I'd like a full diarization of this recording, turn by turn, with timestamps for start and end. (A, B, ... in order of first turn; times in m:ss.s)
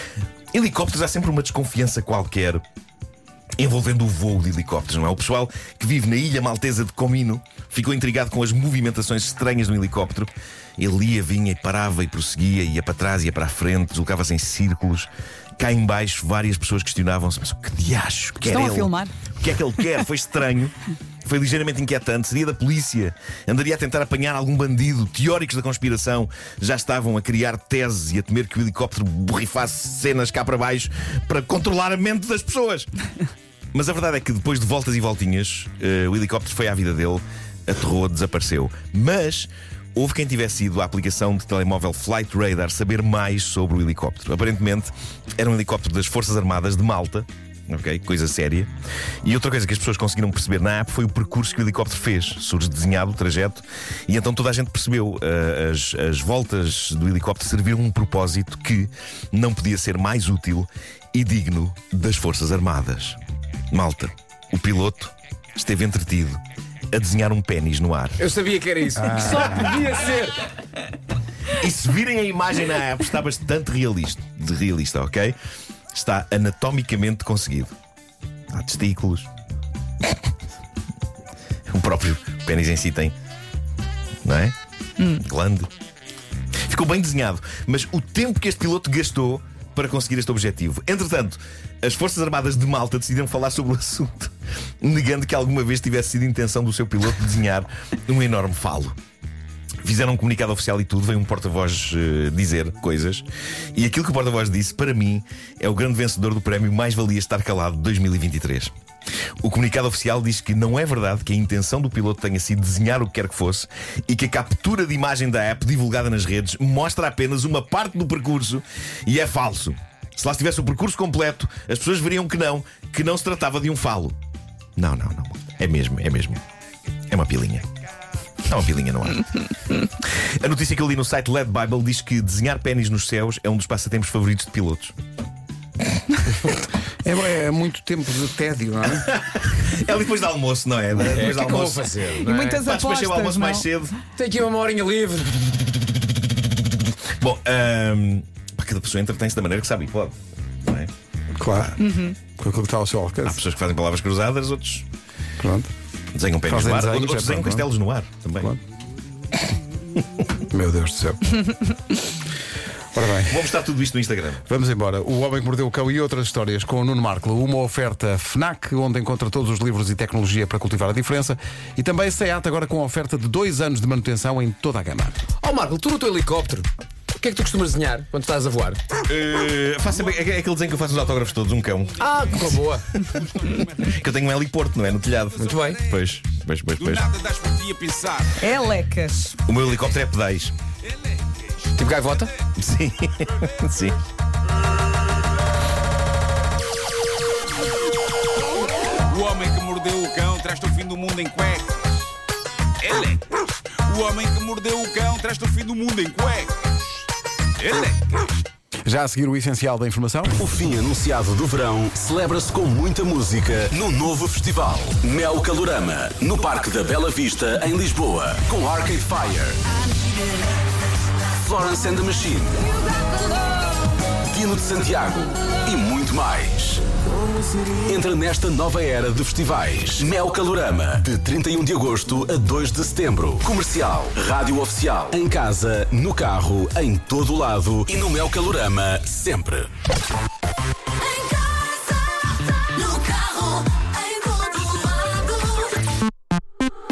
0:00.5-0:02.6 A
0:03.6-0:32.9 A
0:18.4-0:19.1 B
0:33.7-0:48.7 A
0:49.2-1:03.2 A
1:03.7-1:06.4 A
1:06.9-1:08.2 A
1:08.2-1:10.5 C
1:09.0-1:09.5 D
1:11.5-1:15.4 A
1:15.9-1:17.7 A
1:18.5-1:19.3 A
1:21.7-1:23.1 A
1:24.2-1:24.5 A
1:25.2-1:25.7 A
1:26.7-1:38.9 A
1:39.8-1:48.7 A
1:49.4-2:04.1 A
2:04.8-2:06.4 A
2:07.1-2:07.6 A
2:08.4-2:14.9 A
2:17.0-2:19.1 D
2:18.8-2:23.9 A
2:21.0-2:22.6 C
2:22.3-2:23.7 B
2:24.1-2:25.6 C
2:27.2-2:30.9 A
2:31.4-2:33.4 D
2:31.4-2:31.7 A
2:31.8-2:32.2 B
2:33.2-2:34.8 A
2:35.4-2:35.7 D
2:36.1-2:38.5 A
2:36.4-2:37.7 D
2:40.5-2:41.5 D
2:42.9-2:43.5 D
2:43.3-2:44.4 A
2:44.5-2:55.1 D
2:55.4-2:58.8 C
2:59.0-3:02.6 A
3:00.8-3:04.1 E
3:02.0-3:02.9 C
3:03.8-3:07.1 A
3:05.1-3:06.0 E
3:05.4-3:05.8 C
3:06.8-3:08.4 E
3:08.4-3:09.4 B
3:09.4-3:10.5 A
3:10.8-3:12.3 E
3:11.8-3:12.3 C
3:12.6-3:14.0 A
3:13.3-3:13.6 E
3:19.1-3:22.1 E
3:22.8-3:27.0 E
3:27.6-3:28.4 E
3:28.8-3:30.4 D
3:30.4-3:39.6 F
3:41.4-3:42.6 F
3:44.3-3:46.8 F
3:47.8-3:59.7 F